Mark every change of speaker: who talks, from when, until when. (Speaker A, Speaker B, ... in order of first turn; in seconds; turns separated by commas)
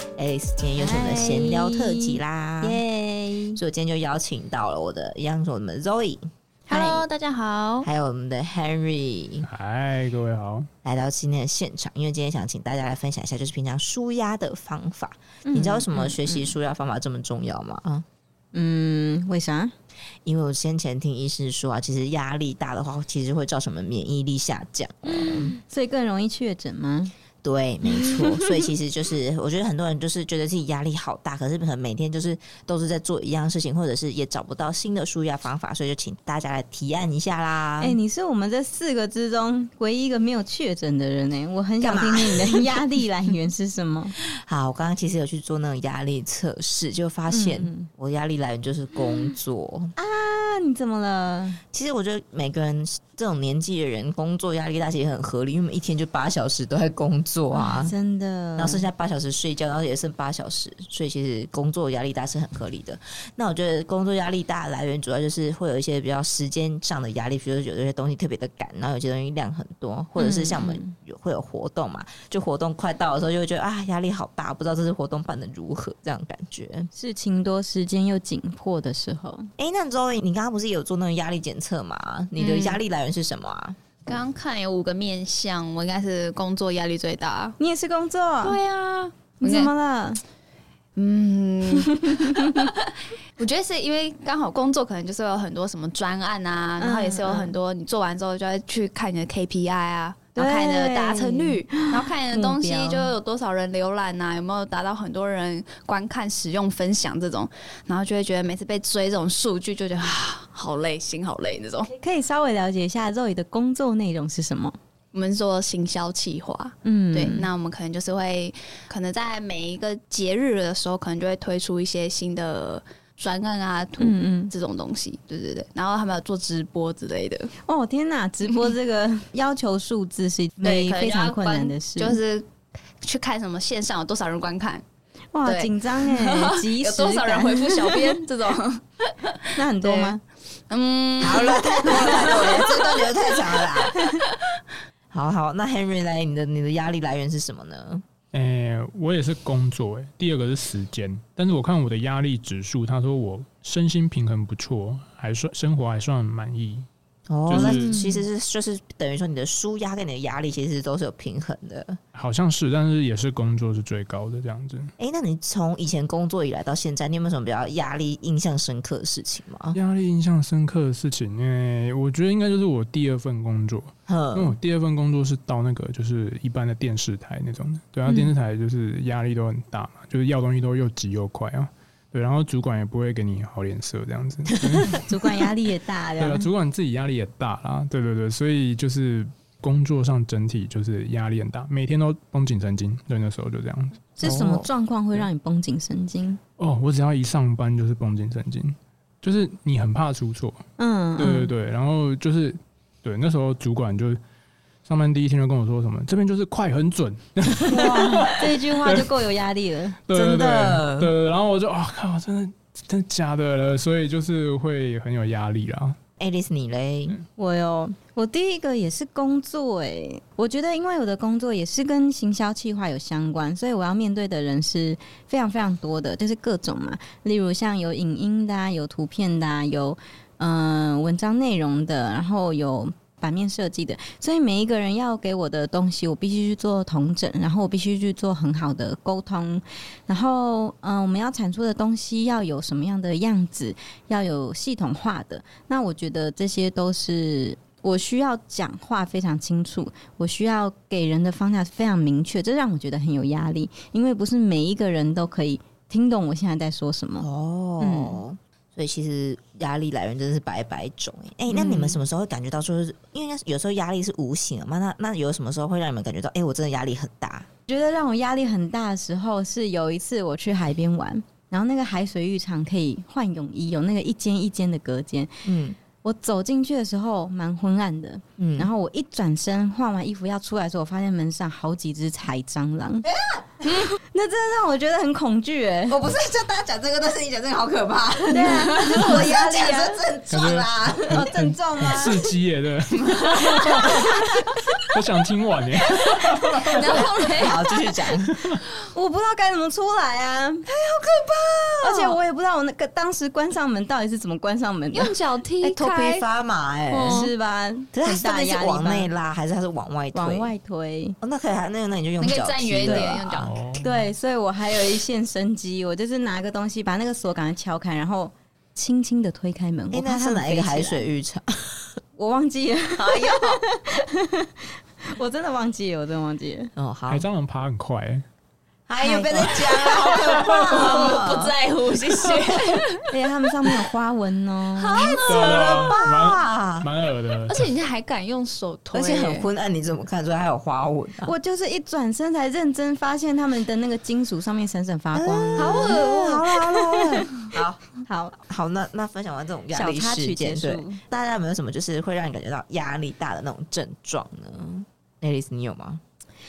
Speaker A: 0.1-2.8, Speaker B: 0.8-3.6, Speaker A: 3.5-7.0, Speaker C: 6.7-7.9, Speaker A: 7.8-9.4, Speaker D: 9.4-10.7, Speaker A: 10.8-18.1, Speaker B: 15.4-16.5, Speaker B: 18.5-19.7, Speaker A: 20.2-25.6, Speaker B: 25.0-27.1, Speaker A: 27.4-38.0, Speaker B: 27.8-28.5, Speaker B: 37.8-44.1, Speaker A: 41.8-42.7, Speaker A: 44.2-49.9, Speaker B: 47.3-47.9, Speaker B: 50.0-51.6, Speaker A: 51.7-57.9, Speaker B: 57.5-58.9, Speaker A: 58.5-76.9, Speaker B: 70.2-70.9, Speaker B: 76.9-79.5, Speaker A: 79.6-84.0, Speaker C: 82.4-82.8, Speaker C: 84.0-87.5, Speaker B: 87.6-88.6, Speaker C: 88.4-89.7, Speaker B: 89.4-90.2, Speaker C: 91.0-111.9, Speaker B: 91.7-92.7, Speaker B: 96.8-97.5, Speaker B: 100.3-103.1, Speaker B: 111.9-114.8, Speaker C: 115.1-127.5, Speaker B: 116.8-117.5, Speaker B: 124.0-124.5, Speaker B: 127.6-132.2, Speaker C: 130.6-132.5, Speaker C: 133.0-134.8, Speaker B: 135.3-138.2, Speaker C: 135.4-140.2, Speaker B: 139.6-140.2, Speaker C: 140.7-144.3, Speaker A: 141.2-144.0, Speaker A: 145.1-148.0, Speaker D: 148.3-156.9, Speaker A: 157.3-162.0, Speaker D: 157.4-157.9, Speaker B: 157.5-158.2, Speaker D: 162.1-164.9, Speaker A: 165.0-169.8, Speaker D: 169.7-185.4, Speaker A: 174.1-174.6, Speaker A: 184.5-185.0, Speaker B: 184.9-186.5, Speaker D: 186.2-194.3, Speaker B: 194.2-196.4, Speaker A: 194.2-194.7, Speaker D: 196.6-200.6, Speaker B: 200.8-201.5, Speaker D: 201.2-204.2, Speaker D: 204.8-209.2, Speaker B: 207.7-210.0, Speaker D: 210.1-216.0, Speaker A: 210.1-211.1, Speaker A: 216.2-217.2, Speaker B: 217.4-257.3, Speaker A: 257.2-267.5, Speaker B: 257.8-258.2, Speaker B: 261.5-262.0, Speaker B: 267.7-275.4, Speaker A: 275.4-275.8, Speaker B: 276.0-283.1, Speaker A: 278.4-278.7, Speaker A: 283.0-283.4, Speaker B: 283.6-286.0, Speaker A: 285.9-291.3, Speaker B: 288.3-289.7, Speaker C: 288.4-289.9, Speaker D: 290.3-297.0, Speaker B: 291.1-292.2, Speaker C: 293.0-294.9, Speaker C: 295.9-297.8, Speaker A: 296.8-298.3, Speaker D: 298.2-298.6, Speaker B: 298.9-300.6, Speaker A: 300.7-302.2, Speaker B: 301.8-305.1, Speaker C: 304.9-306.2, Speaker A: 305.6-307.3, Speaker C: 306.9-307.3, Speaker B: 307.0-309.1, Speaker A: 307.9-310.5, Speaker B: 310.1-311.2, Speaker A: 311.2-313.5, Speaker C: 312.2-313.5, Speaker D: 313.4-314.0, Speaker B: 313.8-321.0, Speaker A: 319.9-321.9, Speaker B: 322.2-326.7, Speaker A: 323.2-323.5, Speaker A: 326.8-327.2, Speaker D: 327.1-328.2, Speaker A: 328.9-331.5, Speaker B: 329.0-329.6, Speaker C: 329.8-333.1, Speaker B: 333.1-335.0, Speaker C: 334.8-336.1, Speaker A: 334.9-336.9, Speaker D: 335.3-337.7, Speaker C: 337.5-339.5, Speaker A: 338.9-341.3, Speaker B: 341.2-346.1, Speaker A: 345.1-356.0, Speaker C: 345.6-346.4, Speaker B: 346.7-347.2, Speaker B: 348.1-348.4, Speaker B: 349.7-351.0